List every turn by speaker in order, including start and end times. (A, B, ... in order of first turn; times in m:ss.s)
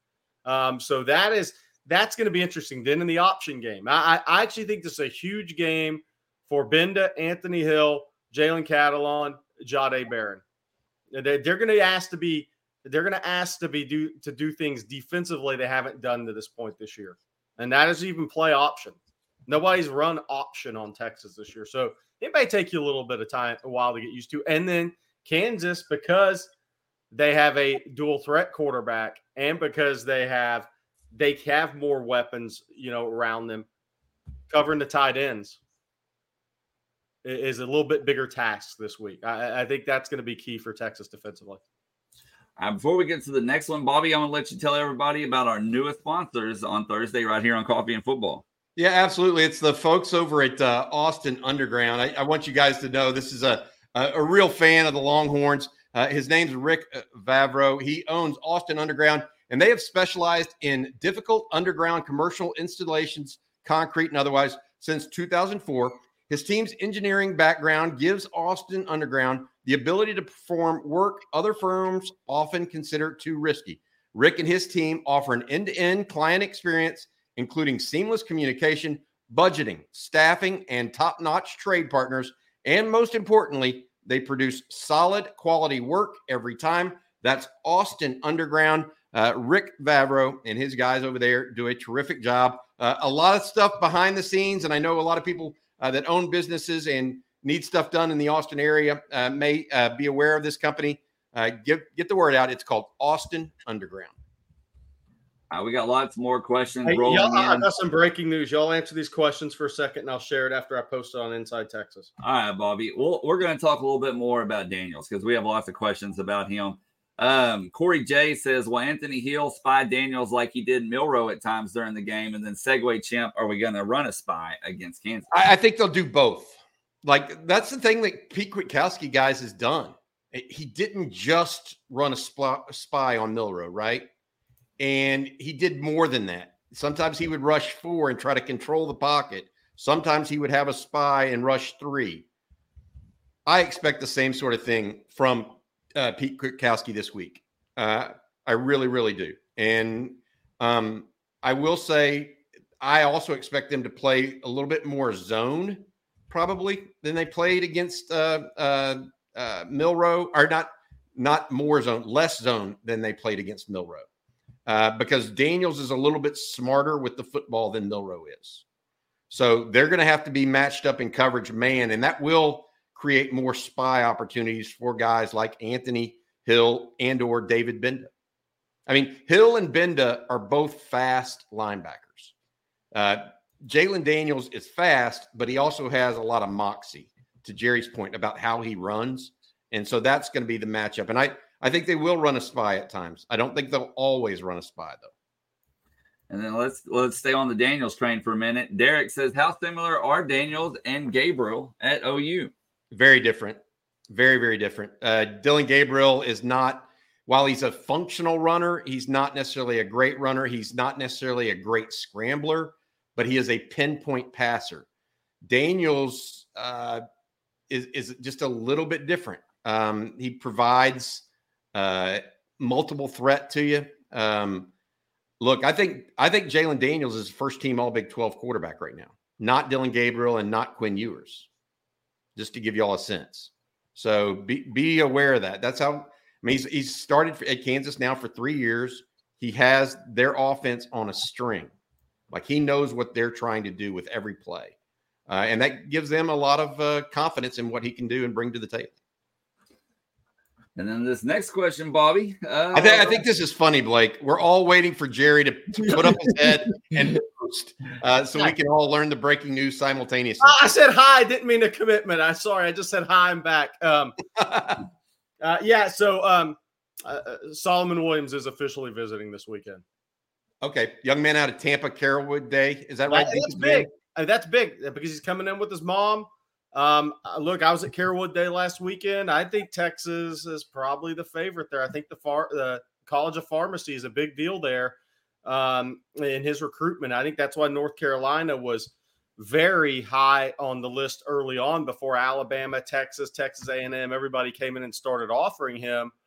0:00.4-0:10.4 A
0:11.1-0:19.0 A
0:19.5-0:26.5 A
0:27.1-0:33.7 A
0:34.5-0:35.6 A
0:37.2-0:41.6 A
0:42.6-0:48.4 B
0:48.8-1:44.1 C
1:45.5-1:47.7 B
1:46.9-1:52.1 A
1:52.2-2:05.3 B
2:05.3-2:14.1 C
2:14.8-2:22.2 C
2:23.4-2:44.0 C
2:44.7-2:48.6 C
2:49.3-2:58.1 C
2:58.9-3:02.3 C
3:02.9-3:15.1 C
3:16.3-3:22.5 B
3:22.9-3:34.9 C
3:35.4-3:37.0 C
3:37.7-3:44.7 C
3:45.4-3:51.5 C
3:52.4-4:01.7 C
4:02.3-4:04.7 C
4:05.3-4:08.9 C
4:10.8-4:13.2 B
4:12.7-4:20.6 C
4:15.9-4:16.2 A
4:20.4-4:24.2 A
4:24.4-4:24.8 C
4:25.4-4:29.8 A
4:30.6-4:33.9 C
4:33.1-4:56.1 A